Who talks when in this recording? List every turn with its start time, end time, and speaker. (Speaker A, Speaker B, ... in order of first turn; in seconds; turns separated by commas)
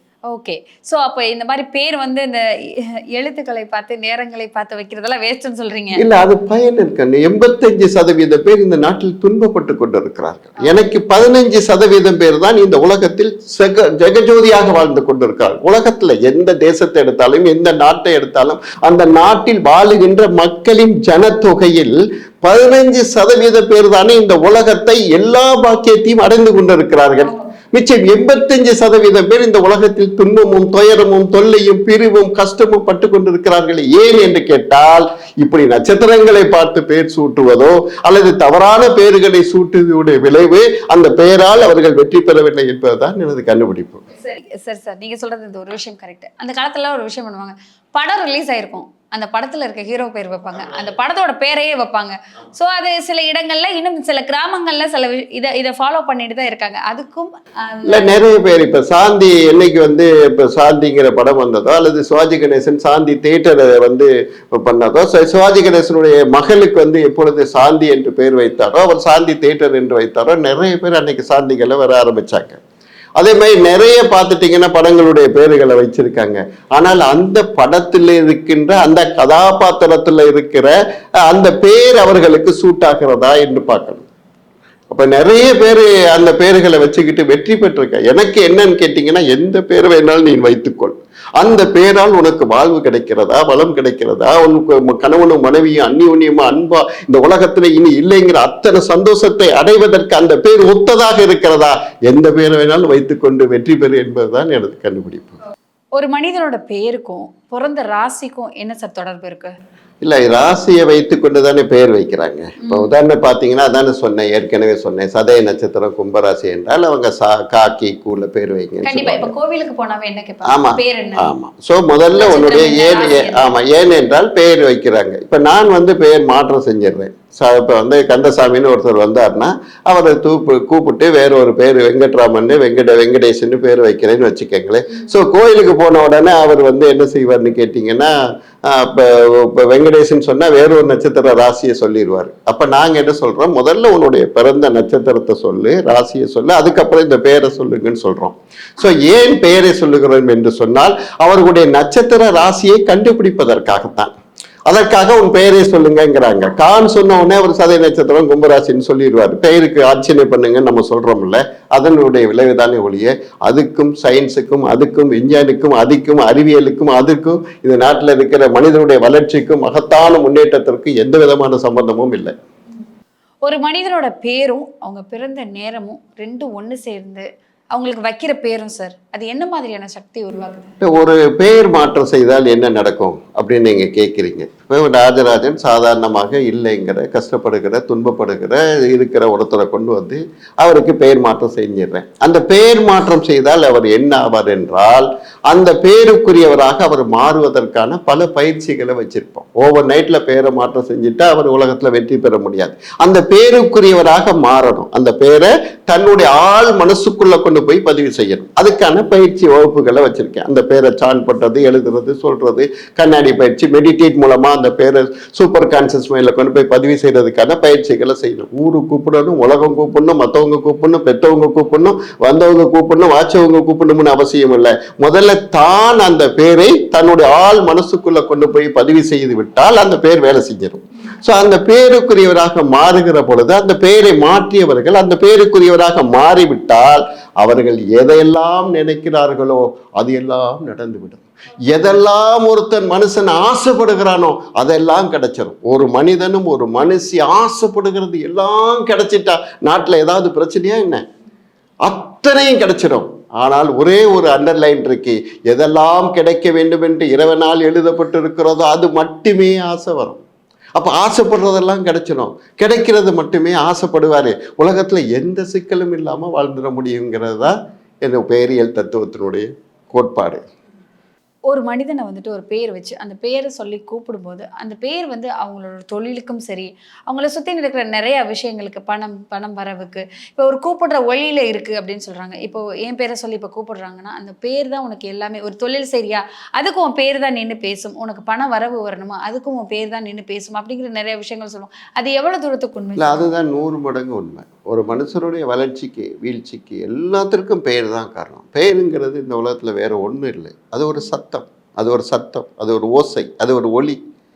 Speaker A: 0.3-6.0, Speaker B: 6.0-44.0, Speaker A: 27.2-27.5, Speaker A: 44.1-58.1, Speaker B: 57.9-72.6, Speaker B: 73.2-80.7, Speaker B: 81.2-84.0, Speaker B: 84.9-105.4, Speaker A: 106.0-109.5, Speaker B: 110.0-119.3, Speaker A: 112.6-112.9, Speaker A: 118.8-121.3, Speaker B: 120.5-154.1, Speaker A: 122.2-123.6, Speaker B: 154.7-172.3, Speaker A: 173.4-180.7, Speaker B: 180.8-251.0, Speaker B: 251.8-260.2, Speaker B: 260.8-270.4, Speaker A: 271.5-293.3, Speaker B: 292.9-304.0